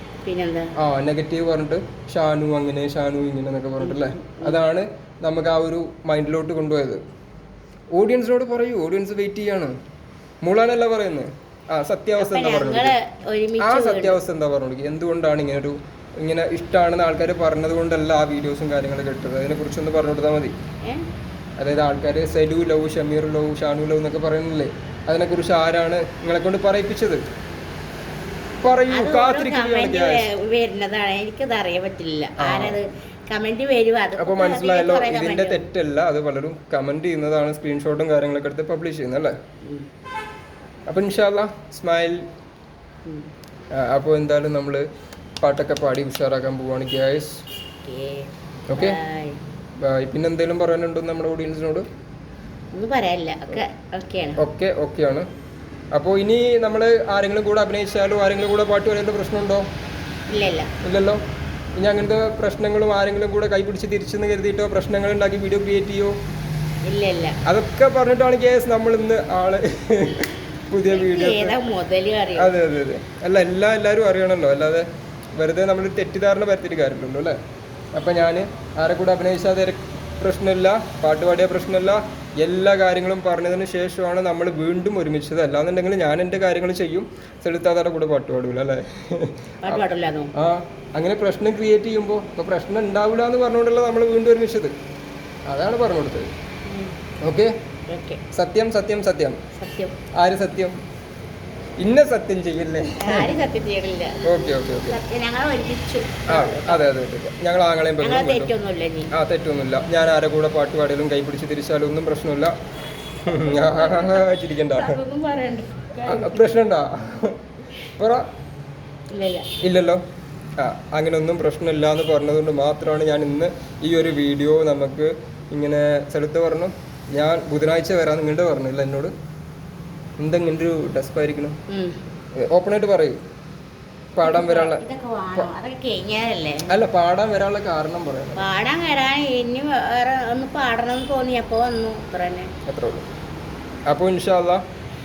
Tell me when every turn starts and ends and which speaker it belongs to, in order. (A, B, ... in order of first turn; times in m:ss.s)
0:00.2-0:00.7 A
0:00.8-0:07.0 B
0:03.8-0:04.6 A
0:07.9-0:09.7 B
0:10.4-0:13.0 B
0:12.2-0:14.2 A
0:13.6-0:20.5 B
0:21.6-0:27.2 B
0:28.6-0:30.3 B
0:28.9-0:35.6 A
0:32.4-0:32.8 B
0:34.2-0:39.3 B
0:40.9-0:42.2 B
0:43.7-0:44.8 B
0:45.4-0:47.4 B
0:47.8-0:49.4 A
0:48.7-0:49.0 B
0:49.8-0:51.8 B
0:52.7-0:54.4 A
0:54.4-0:55.2 B
0:55.9-0:59.6 B
1:00.3-1:00.7 A
1:00.8-1:01.2 B
1:01.8-1:06.1 B
1:06.9-1:07.4 A
1:07.4-1:11.6 B
1:10.9-1:12.5 A
1:12.4-1:14.8 B
1:15.4-1:17.4 B
1:18.0-1:29.8 B
1:29.6-1:30.3 A
1:30.4-1:34.7 B
1:35.5-1:36.3 B
1:36.7-1:37.0 A
1:37.2-1:37.5 B
1:37.9-1:38.2 A
1:38.3-1:39.4 B
1:39.6-1:40.0 A
1:40.2-1:40.8 B
1:41.8-1:43.3 B
1:43.0-1:44.3 A
1:44.2-1:45.0 B
1:44.9-1:46.8 A
1:46.3-1:48.5 B
1:48.0-1:49.1 A
1:49.1-1:52.5 B
1:53.2-1:55.0 B
1:53.3-1:56.5 A
1:56.0-1:57.4 B
1:58.0-1:58.2 B
1:59.1-1:59.5 A
1:59.6-2:00.0 B
2:00.6-2:09.1 B
2:10.2-2:11.6 B
2:11.7-2:12.0 A
2:12.4-2:13.2 B
2:14.2-2:14.8 B
2:14.2-2:16.7 A
2:16.7-2:18.4 B
2:18.4-2:22.5 A
2:22.7-2:23.0 B
2:23.9-2:24.6 B